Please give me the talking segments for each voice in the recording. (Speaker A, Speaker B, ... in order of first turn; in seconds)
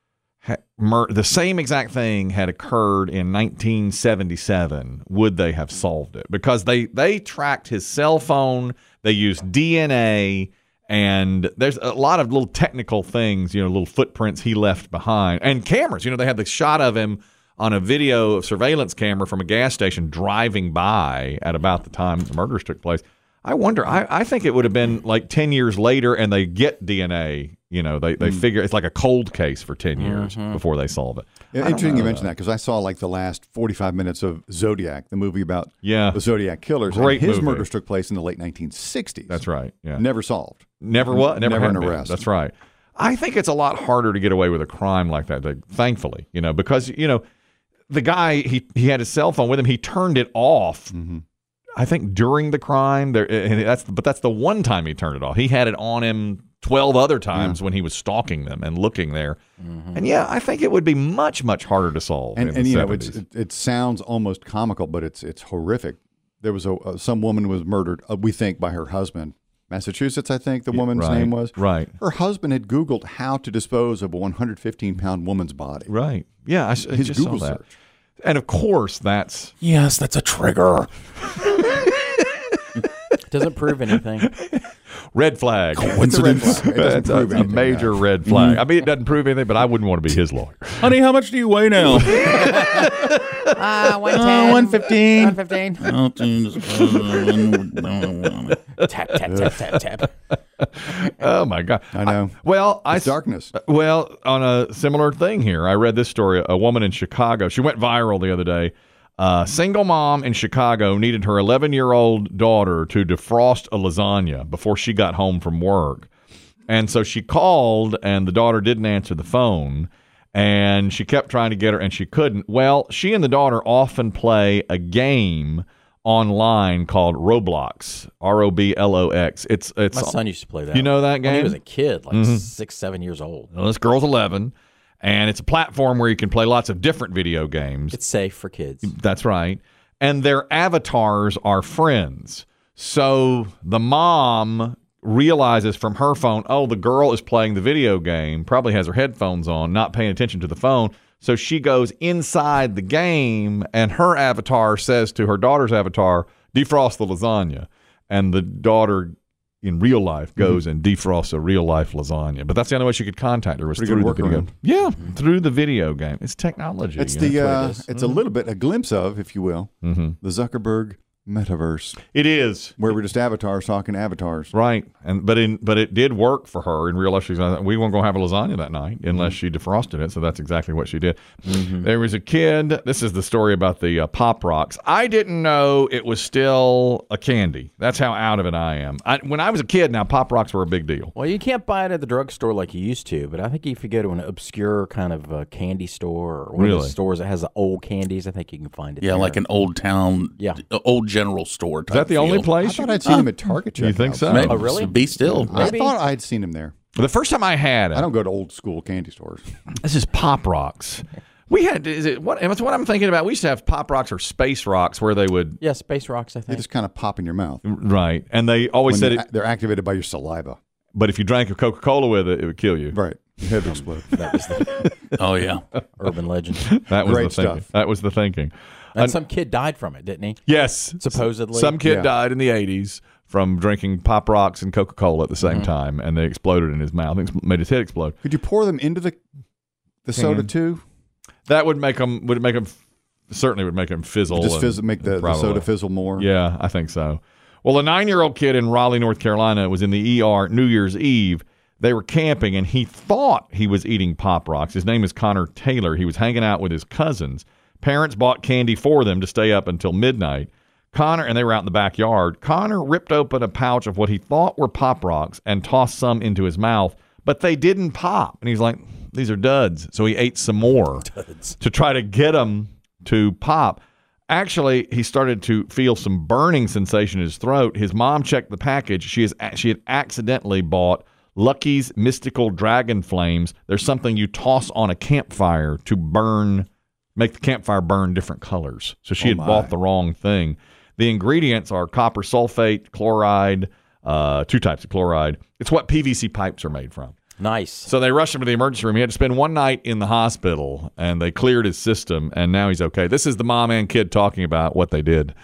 Speaker A: 0.4-32.3, 35.8-36.2, 36.9-37.7, 39.3-40.0, 40.8-47.2, 47.9-50.9, 51.8-59.4, 60.0-63.2, 70.7-72.0, 75.9-77.6, 78.2-79.5, 84.4-86.0, 86.6-90.9, 92.0-93.5, 100.6-116.1, 116.7-130.2, 130.7-131.6, 132.1-132.5, 133.5-138.0, 138.8-168.2, 169.8-170.2, 172.0-172.8, 174.5-191.1, 196.6-196.9, 201.9-203.2, 203.8-204.7, 206.9-208.1, 209.8-215.6, 217.6-219.2, 220.9-223.0, 224.5-224.9, 226.7-229.2, 230.5-238.2, 240.2-240.5, 241.5-242.8, 243.3-245.7, 246.2-271.1, 271.6-297.2, 297.9-305.3
Speaker B: 28.2-28.4, 31.5-39.4, 40.0-42.2, 50.9-51.2, 62.4-75.9, 76.9-77.8, 86.0-88.0, 101.9-102.4, 102.9-103.5, 163.8-164.5, 167.0-172.0, 172.8-174.5, 202.6-204.7, 205.4-206.7, 207.9-209.4, 216.5-217.6, 218.9-220.6, 222.9-224.2, 227.0-227.7, 231.8-232.1, 238.2-239.2, 240.1-240.8, 244.3-246.3, 289.2-289.7
Speaker C: 30.0-30.6, 59.6-60.0, 83.2-84.3, 92.2-92.9, 93.5-96.0, 98.8-100.1, 129.9-133.5, 137.9-138.9, 167.4-167.8, 181.5-181.8, 191.2-199.4, 204.3-206.0, 215.6-216.7, 223.6-224.9, 225.9-226.8, 228.9-230.5, 231.0-231.8, 235.4-235.7, 271.1-271.5, 297.4-297.9
Speaker D: 79.6-80.9, 85.8-86.7, 88.2-88.6, 90.8-92.4, 94.0-98.6, 199.0-203.3, 204.3-205.7, 225.2-225.6